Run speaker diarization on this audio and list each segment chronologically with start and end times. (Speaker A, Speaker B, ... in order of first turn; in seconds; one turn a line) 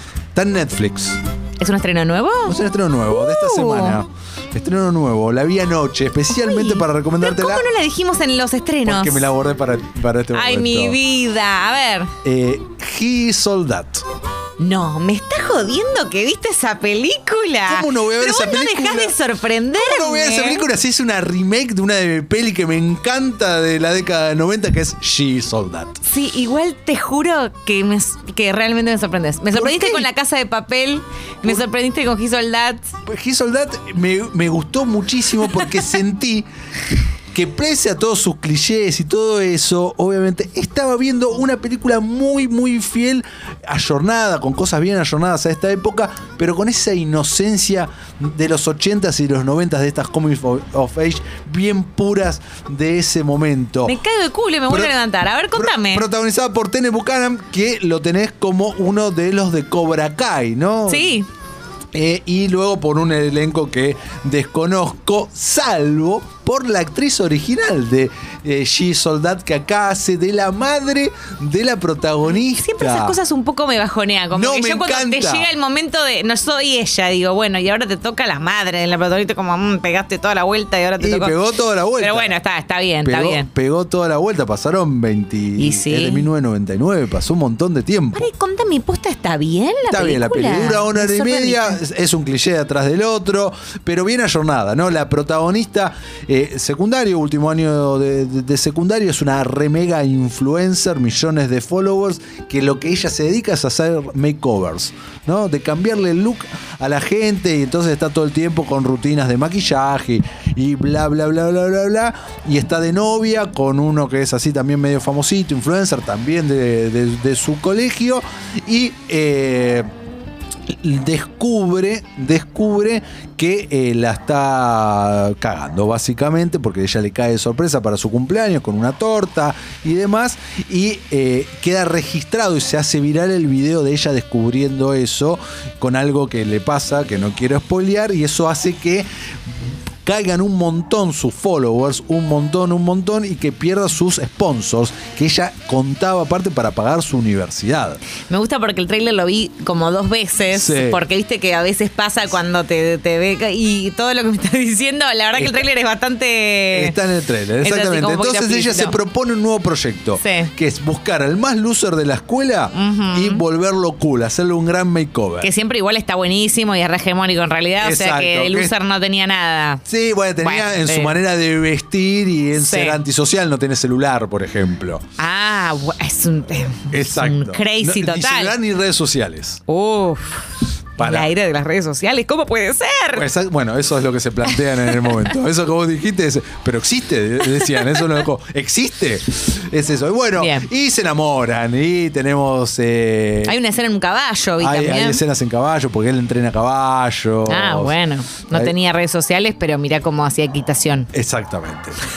Speaker A: 0.3-1.2
Speaker B: 1.6-2.6
Speaker A: 2.5-7.7
Speaker B: 3.1-4.0
Speaker B: 6.3-9.3
Speaker A: 8.8-11.0
Speaker B: 10.3-12.1
Speaker A: 12.2-14.0
Speaker B: 14.6-20.7
Speaker A: 17.7-19.1
Speaker A: 19.7-26.0
Speaker B: 26.0-32.9
Speaker A: 29.5-30.1
Speaker A: 33.0-36.5
Speaker A: 37.3-54.0
Speaker B: 53.9-56.1
Speaker A: 55.5-61.2
Speaker B: 60.9-61.3
Speaker A: 61.9-73.2
Speaker B: 72.4-81.4
Speaker A: 74.3-75.5
Speaker A: 81.0-82.3
Speaker B: 82.0-83.5
Speaker A: 83.0-88.3
Speaker B: 85.6-86.3
Speaker B: 88.1-91.8
Speaker A: 89.9-119.8
Speaker A: 120.7-139.1
Speaker A: 140.1-148.0
Speaker B: 148.2-157.0
Speaker A: 150.5-151.0
Speaker A: 155.3-155.6
Speaker A: 156.7-165.5
Speaker B: 157.6-158.9
Speaker B: 160.2-160.5
Speaker B: 162.7-163.4
Speaker B: 165.4-169.8
Speaker A: 167.8-168.7
Speaker A: 169.8-175.0
Speaker B: 170.4-171.2
Speaker B: 172.5-173.0
Speaker B: 175.2-178.6
Speaker A: 176.9-179.6
Speaker B: 179.7-183.2
Speaker A: 181.0-181.3
Speaker A: 183.1-193.6
Speaker B: 184.6-185.3
Speaker B: 187.5-188.2
Speaker B: 190.4-190.7
Speaker B: 193.4-195.2
Speaker A: 194.6-197.9
Speaker B: 197.5-201.1
Speaker A: 201.1-202.0